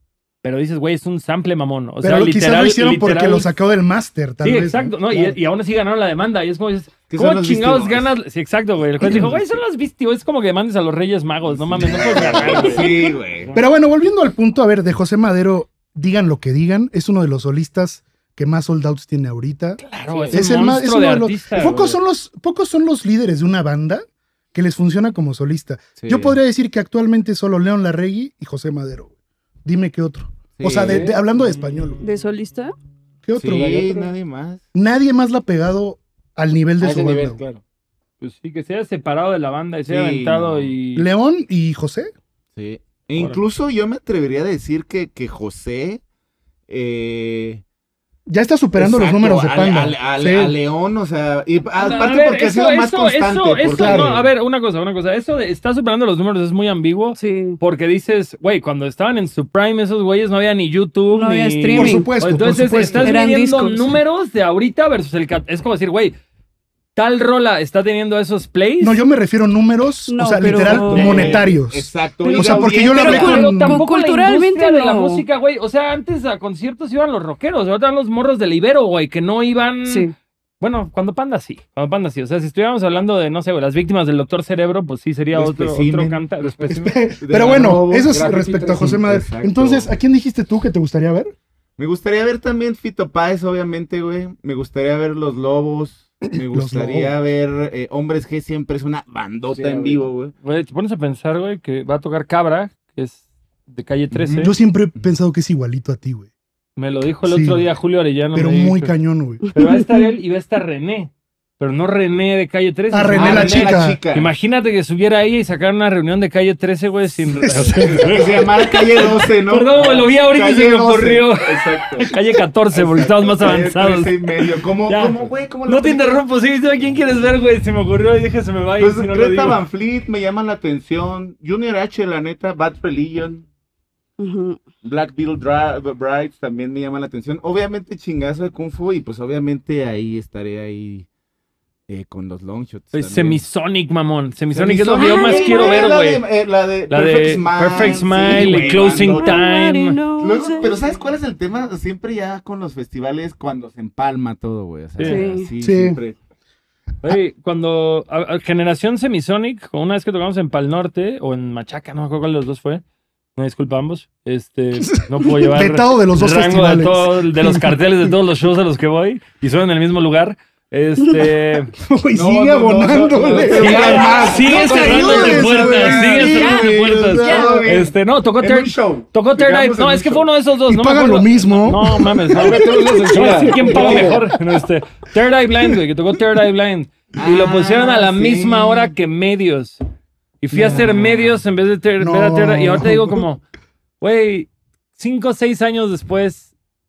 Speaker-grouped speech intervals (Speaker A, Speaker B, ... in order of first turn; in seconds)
Speaker A: 0.4-3.5, 4.4-13.6, 19.8-22.0, 38.2-41.1, 51.8-66.1, 66.9-69.0, 70.9-71.4, 72.9-86.9, 100.4-104.5, 106.8-108.9, 109.5-129.6, 142.9-146.2, 146.9-150.0, 154.9-155.2, 157.0-162.8, 163.3-171.7, 173.6-189.8, 190.4-193.4, 194.0-196.5
Speaker B: 2.0-5.4, 9.0-9.4, 11.8-12.7, 13.5-29.1, 29.6-32.0, 33.2-34.0, 34.7-37.4, 40.9-42.1, 48.3-50.5, 53.7-54.2, 61.7-63.1, 68.8-73.8, 86.7-91.3, 96.3-97.1, 104.4-106.3, 107.2-107.7, 108.3-109.4, 112.9-114.0, 117.2-118.2, 155.6-156.0, 164.8-168.2, 171.8-174.1, 174.8-177.6, 180.7-182.7, 190.5-191.0, 192.0-193.2
Speaker C: 7.1-8.1, 11.5-13.5, 26.0-26.4, 30.6-31.1, 33.4-34.6, 39.9-40.7, 42.5-46.0, 46.7-47.6, 48.7-54.3, 70.5-73.4, 85.3-86.2, 87.2-89.9, 91.8-100.3, 104.1-105.1, 113.2-114.3, 117.9-122.2, 122.7-126.2, 128.8-133.5, 134.8-141.1, 141.9-143.4, 144.5-149.5, 150.2-156.2, 172.1-180.2, 183.1-184.2, 187.1-188.9, 190.5-191.2
Speaker D: 20.1-20.4, 30.8-31.2, 33.5-34.1, 36.8-37.6, 86.4-86.8, 87.3-89.0, 99.5-100.1, 113.2-113.5, 173.3-175.3, 182.3-184.2
Speaker E: 32.0-32.7, 57.2-57.6, 61.1-62.1, 63.0-64.0, 70.1-71.3, 72.2-75.2, 79.8-80.1, 109.6-110.0, 134.2-134.6, 144.9-146.0, 147.8-150.9, 155.0-155.5, 176.3-176.6, 177.2-177.6